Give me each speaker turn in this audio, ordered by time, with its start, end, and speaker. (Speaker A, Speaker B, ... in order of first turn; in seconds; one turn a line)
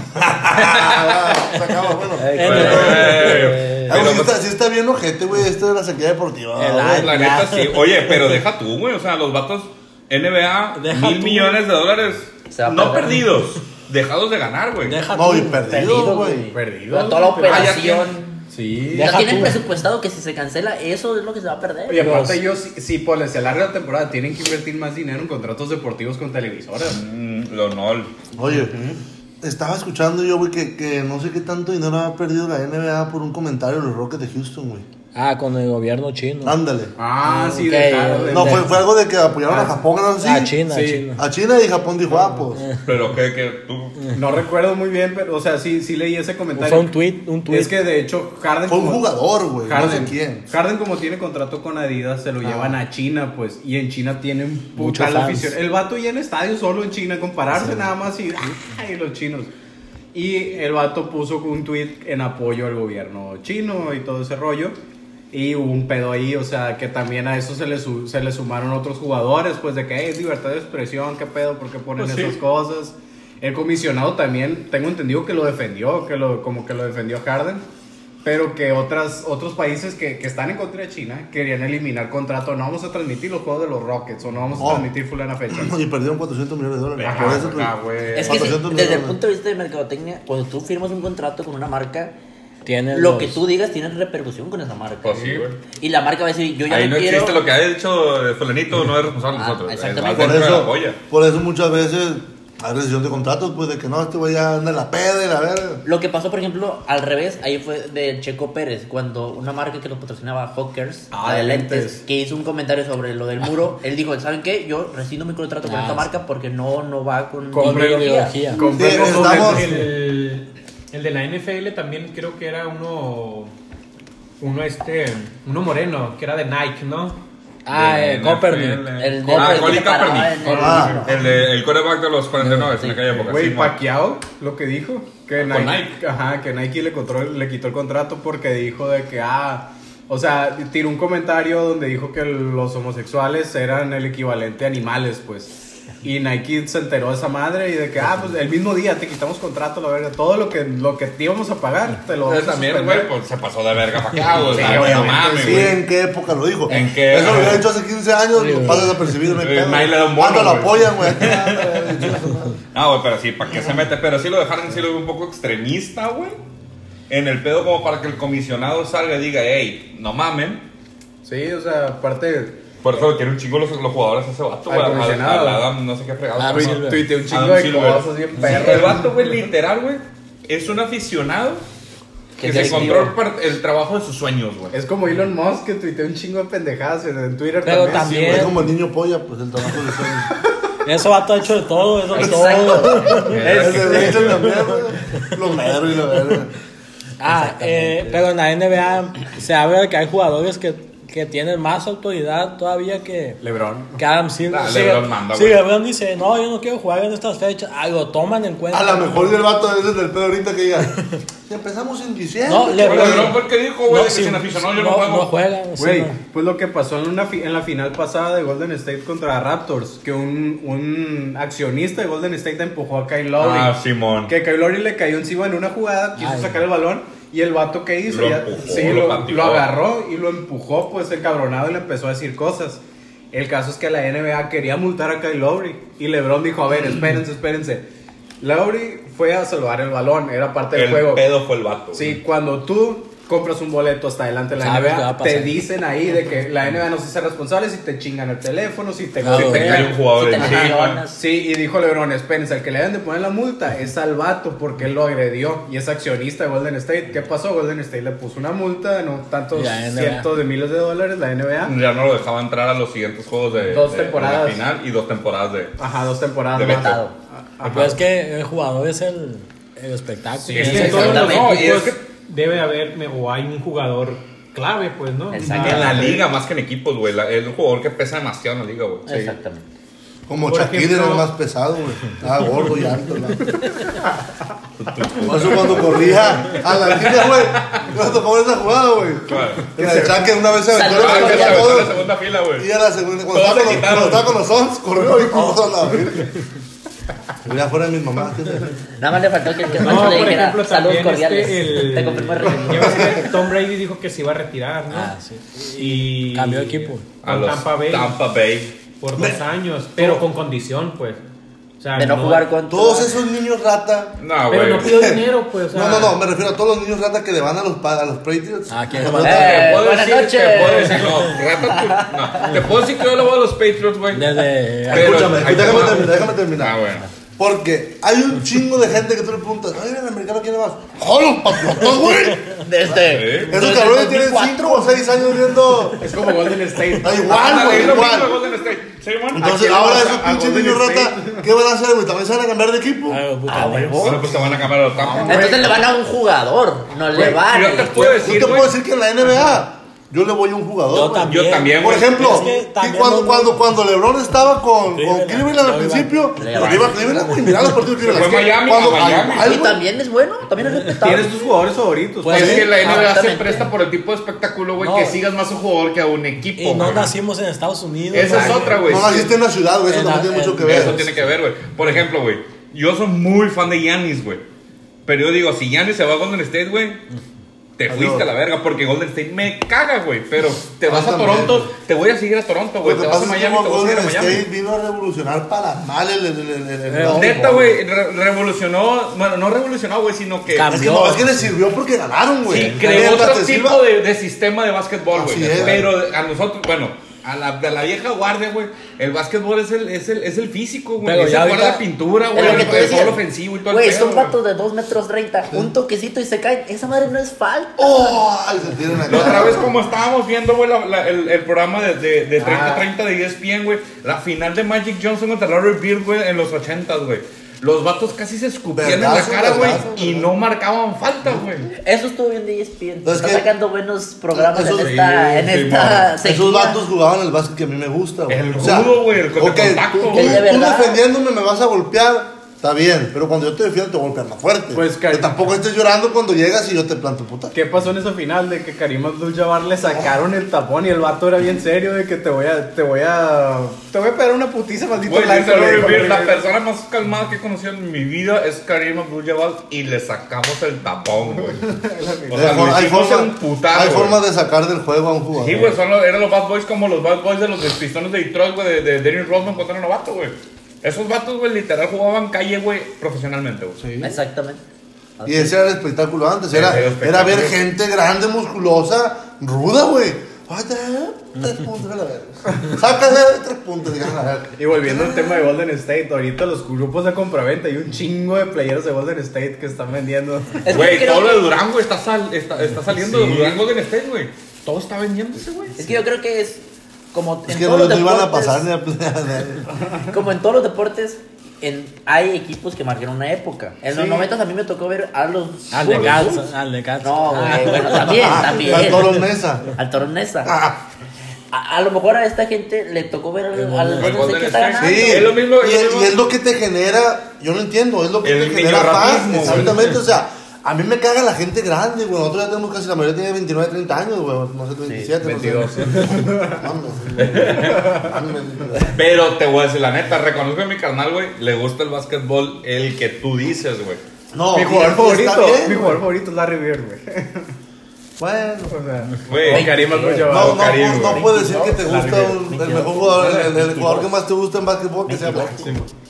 Speaker A: 0.3-7.1
Speaker B: 0.4-1.4
Speaker C: 2.2-3.5
Speaker D: 2.4-3.4
Speaker B: 2.4-4.4
Speaker C: 6.6-8.3
Speaker B: 6.9-15.0
Speaker C: 10.8-11.6
Speaker D: 12.5-13.3
Speaker C: 14.8-15.7
Speaker A: 15.1-16.5
Speaker D: 15.7-18.2
Speaker E: 16.5-17.7
Speaker B: 17.4-18.4
Speaker E: 18.5-19.5
Speaker C: 18.8-19.6
Speaker D: 19.0-22.1
Speaker E: 21.9-27.0
Speaker C: 21.9-22.4
Speaker B: 26.9-28.1
Speaker A: 28.4-28.8
Speaker E: 28.5-29.0
Speaker A: 29.4-34.9
Speaker C: 35.1-36.6
Speaker A: 36.4-36.9
Speaker E: 37.0-38.7
Speaker C: 37.2-38.7
Speaker A: 38.3-40.5
Speaker E: 39.5-39.8
Speaker C: 40.2-41.2
Speaker E: 40.6-41.1
Speaker A: 41.1-42.6
Speaker E: 42.1-42.4
Speaker C: 42.5-42.8
Speaker B: 42.8-44.0
Speaker E: 44.1-46.9
Speaker C: 46.5-47.8
Speaker E: 47.5-49.0
Speaker A: 48.7-50.5
Speaker E: 49.6-59.5
Speaker C: 54.8-55.5
Speaker E: 60.1-64.8
Speaker E: 65.3-77.6
Speaker B: 72.0-72.3
Speaker E: 78.2-85.7
Speaker A: 84.6-84.9
Speaker A: 85.5-89.2
Speaker B: 87.0-88.3
Speaker E: 87.0-88.6
Speaker D: 88.2-92.1
Speaker C: 92.6-93.4
Speaker D: 92.9-97.4
Speaker B: 95.0-95.6
Speaker B: 96.7-101.0
Speaker D: 99.3-100.5
Speaker A: 100.1-105.8
Speaker D: 105.8-118.4
Speaker E: 111.1-112.0
Speaker C: 115.6-116.1
Speaker E: 117.5-119.8
Speaker C: 117.5-118.7
Speaker F: 118.7-123.5
Speaker A: 118.7-119.7
Speaker F: 124.4-127.2
Speaker C: 127.7-129.8
Speaker B: 127.7-133.8
Speaker D: 128.9-131.2
Speaker E: 130.4-130.9
Speaker A: 130.6-131.1
Speaker C: 132.4-132.9
Speaker D: 132.8-133.1
Speaker E: 133.2-153.1
Speaker B: 135.4-135.9
Speaker B: 152.2-155.7
Speaker E: 154.2-155.7
Speaker A: 154.6-162.6
Speaker B: 156.7-157.7
Speaker C: 158.3-159.2
Speaker B: 159.4-161.9
Speaker B: 162.7-166.4
Speaker B: 167.1-170.6
Speaker E: 171.2-172.6
Speaker B: 172.8-181.6
Speaker E: 174.7-175.7
Speaker C: 176.4-177.1
Speaker E: 176.5-179.3
Speaker C: 178.4-178.7
Speaker D: 182.4-183.2
Speaker B: 182.4-184.7
Speaker E: 182.5-182.9
Speaker E: 184.7-188.6
Speaker C: 187.6-188.6
Speaker A: 188.0-190.3
Speaker C: 190.8-193.4
Speaker D: 192.1-194.3
Speaker A: 192.2-196.5
Speaker B: 193.2-194.4
Speaker C: 194.3-194.5
Speaker C: 197.2-203.4
Speaker D: 197.3-198.1
Speaker E: 203.4-204.0
Speaker C: 204.0-209.4
Speaker B: 204.5-205.6
Speaker A: 208.7-213.4
Speaker C: 212.5-216.2
Speaker B: 212.8-215.3
Speaker E: 215.8-232.8
Speaker B: 223.4-224.3
Speaker C: 226.2-226.6
Speaker B: 228.1-229.8
Speaker E: 233.3-237.8
Speaker E: 238.4-241.3
Speaker B: 240.7-242.2
Speaker E: 241.9-261.7
Speaker C: 244.6-245.7
Speaker C: 249.2-249.9
Speaker B: 249.3-251.0
Speaker D: 249.9-251.2
Speaker C: 259.5-260.3
Speaker B: 261.6-265.8
Speaker E: 263.6-264.6
Speaker E: 265.8-267.0
Speaker B: 266.5-267.0
Speaker D: 266.7-267.1
Speaker E: 267.6-267.9
Speaker B: 267.6-267.9
Speaker C: 267.6-271.3
Speaker B: 270.5-272.0
Speaker F: 270.6-276.1
Speaker D: 270.8-271.5
Speaker D: 275.3-276.1
Speaker B: 275.4-279.1
Speaker A: 275.5-275.8
Speaker E: 275.6-276.2
Speaker D: 279.1-279.6
Speaker E: 279.1-279.3
Speaker A: 280.3-283.6
Speaker F: 280.5-281.3
Speaker B: 284.8-287.9
Speaker A: 285.2-292.0
Speaker B: 289.3-289.9
Speaker D: 290.7-291.9
Speaker B: 290.8-292.7
Speaker A: 292.6-296.3
Speaker B: 293.3-294.3
Speaker A: 297.4-298.8
Speaker D: 299.0-303.2
Speaker F: 299.7-305.1
Speaker C: 304.9-307.1
Speaker F: 305.8-308.2
Speaker B: 307.2-308.8
Speaker F: 309.0-311.2
Speaker F: 311.8-312.5
Speaker D: 311.9-313.1
Speaker A: 312.7-314.2
Speaker B: 314.2-315.0
Speaker F: 314.5-316.2
Speaker A: 314.8-319.8
Speaker C: 318.7-319.6
Speaker D: 319.2-322.6
Speaker B: 319.2-327.1
Speaker C: 324.1-325.8
Speaker A: 324.9-326.8
Speaker A: 327.4-332.6
Speaker D: 331.9-335.0
Speaker B: 332.9-333.6
Speaker A: 333.5-336.1
Speaker E: 336.0-338.2
Speaker A: 337.0-338.3
Speaker B: 337.3-339.7
Speaker A: 339.3-343.2
Speaker E: 339.4-341.4
Speaker C: 343.1-344.1
Speaker D: 343.5-344.4
Speaker B: 344.0-345.7
Speaker A: 344.1-344.7
Speaker D: 345.2-348.3
Speaker E: 345.3-345.6
Speaker B: 347.1-348.7
Speaker A: 348.1-359.8
Speaker C: 350.9-353.6
Speaker B: 351.3-352.5
Speaker C: 354.9-356.4
Speaker D: 356.4-357.0
Speaker B: 356.5-356.9
Speaker C: 357.2-357.8
Speaker B: 358.0-359.6
Speaker D: 359.0-361.5
Speaker E: 361.0-362.7
Speaker C: 362.2-363.0
Speaker B: 362.3-367.1
Speaker A: 362.3-362.7
Speaker D: 362.6-363.7
Speaker C: 364.8-365.2
Speaker C: 366.6-369.0
Speaker B: 368.1-369.3
Speaker A: 368.8-371.0
Speaker C: 369.9-371.3
Speaker B: 370.6-374.4
Speaker B: 375.1-377.0
Speaker B: 377.8-384.4
Speaker A: 377.9-378.3
Speaker A: 380.9-381.7
Speaker A: 382.8-387.8
Speaker C: 386.9-387.4
Speaker B: 387.0-390.8
Speaker C: 390.5-391.4
Speaker A: 390.7-393.8
Speaker B: 392.4-404.4
Speaker A: 395.1-395.9
Speaker C: 401.0-401.8
Speaker D: 402.3-408.2
Speaker A: 402.4-403.0
Speaker A: 407.8-409.7
Speaker B: 409.1-421.7
Speaker E: 412.4-412.8
Speaker A: 418.8-420.3
Speaker D: 421.8-426.8
Speaker A: 423.0-423.5
Speaker A: 424.3-425.5
Speaker B: 424.8-426.1
Speaker A: 426.2-437.5
Speaker B: 428.3-430.5
Speaker D: 430.1-431.0
Speaker E: 434.7-435.4
Speaker E: 437.5-446.4
Speaker B: 445.0-451.6
Speaker E: 451.4-452.6
Speaker B: 452.3-454.2
Speaker A: 452.3-455.7
Speaker B: 455.4-463.8
Speaker A: 463.8-464.2
Speaker D: 464.0-464.6
Speaker D: 465.2-465.6
Speaker A: 465.2-475.5
Speaker B: 466.5-467.6
Speaker E: 474.6-480.9
Speaker D: 480.7-481.6
Speaker B: 480.7-485.8
Speaker E: 482.9-483.6
Speaker D: 485.8-488.7
Speaker A: 487.5-489.7
Speaker D: 490.1-496.4
Speaker E: 493.9-494.3
Speaker C: 495.7-498.9
Speaker D: 497.0-499.2
Speaker A: 498.0-499.7
Speaker D: 499.8-500.5
Speaker A: 500.4-500.8
Speaker D: 501.5-505.3
Speaker C: 503.5-504.2
Speaker B: 503.9-506.1
Speaker A: 504.8-518.9
Speaker B: 508.2-510.0
Speaker E: 515.2-516.7
Speaker B: 517.2-518.0
Speaker E: 517.5-518.1
Speaker B: 518.8-524.0
Speaker A: 524.3-526.0
Speaker E: 524.5-527.5
Speaker A: 528.2-528.8
Speaker E: 528.7-530.9
Speaker B: 529.2-531.2
Speaker D: 529.5-532.0
Speaker A: 530.3-535.9
Speaker E: 531.8-532.8
Speaker D: 532.5-534.1
Speaker D: 535.0-535.8